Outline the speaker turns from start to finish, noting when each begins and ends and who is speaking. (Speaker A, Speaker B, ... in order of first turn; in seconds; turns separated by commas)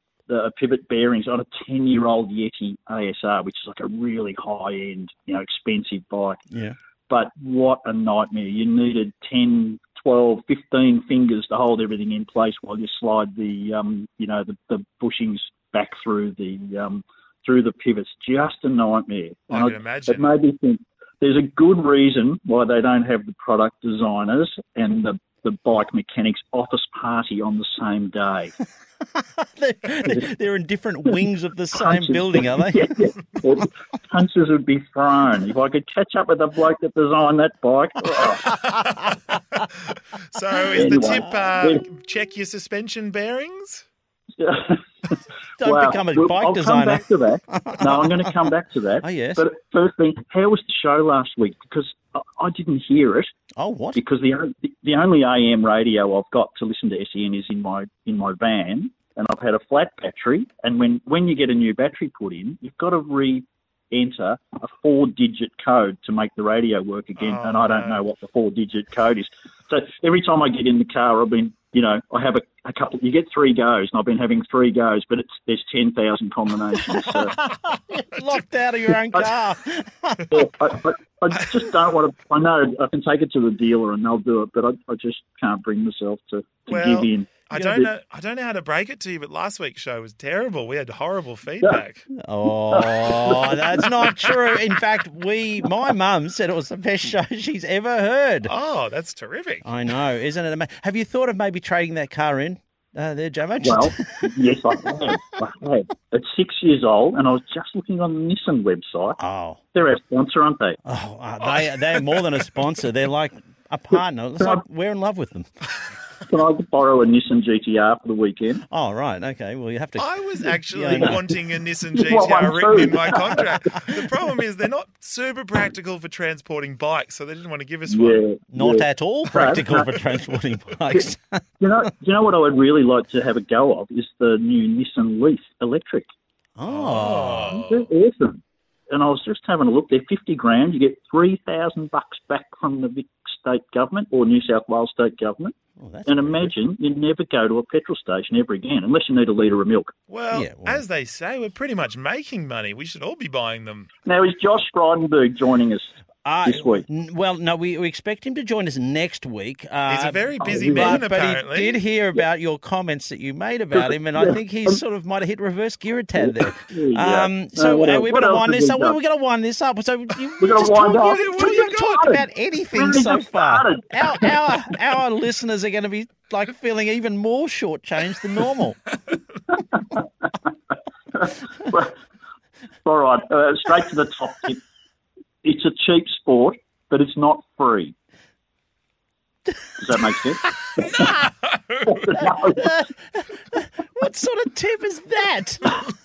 Speaker A: 0.3-6.4, Speaker B: 6.5-6.8, Speaker A: 7.1-28.5, Speaker C: 19.5-20.3, Speaker B: 29.2-32.8, Speaker A: 31.8-38.5, Speaker C: 38.5-38.9, Speaker C: 40.3-43.9, Speaker A: 40.7-41.9, Speaker B: 40.8-41.5, Speaker A: 44.4-44.8, Speaker B: 45.6-48.5, Speaker A: 45.6-53.3, Speaker B: 49.0-49.5, Speaker B: 53.6-54.0, Speaker A: 54.0-77.4, Speaker C: 67.2-68.0, Speaker B: 76.9-77.3, Speaker B: 77.9-80.4, Speaker A: 80.3-87.9, Speaker C: 86.7-92.1, Speaker B: 92.2-98.5, Speaker A: 92.7-94.0, Speaker C: 98.5-99.7, Speaker B: 99.7-104.3, Speaker A: 103.6-109.2, Speaker B: 109.2-109.6, Speaker A: 109.7-110.8, Speaker B: 110.9-115.5, Speaker C: 111.4-112.0, Speaker A: 113.9-114.6, Speaker A: 116.3-118.6, Speaker B: 118.7-120.1, Speaker C: 120.0-128.3, Speaker B: 120.7-121.2, Speaker A: 120.9-121.2, Speaker A: 121.9-123.6, Speaker A: 127.9-129.9, Speaker B: 128.5-131.4, Speaker A: 131.6-136.1, Speaker B: 136.6-137.6, Speaker C: 136.7-137.9, Speaker A: 137.5-145.5, Speaker B: 145.8-146.5, Speaker A: 146.1-149.9, Speaker C: 150.1-153.9, Speaker B: 150.3-150.8, Speaker A: 154.1-155.9, Speaker B: 156.2-178.8, Speaker A: 156.4-156.9, Speaker C: 159.9-161.8, Speaker A: 160.4-161.0, Speaker A: 163.8-164.8, Speaker A: 166.2-169.0, Speaker A: 170.4-172.2, Speaker C: 170.6-172.1, Speaker A: 172.7-174.6, Speaker A: 179.8-180.0, Speaker A: 181.2-182.0, Speaker A: 182.8-184.6, Speaker A: 185.4-187.9, Speaker A: 189.8-191.2, Speaker A: 191.8-192.8, Speaker B: 192.5-195.8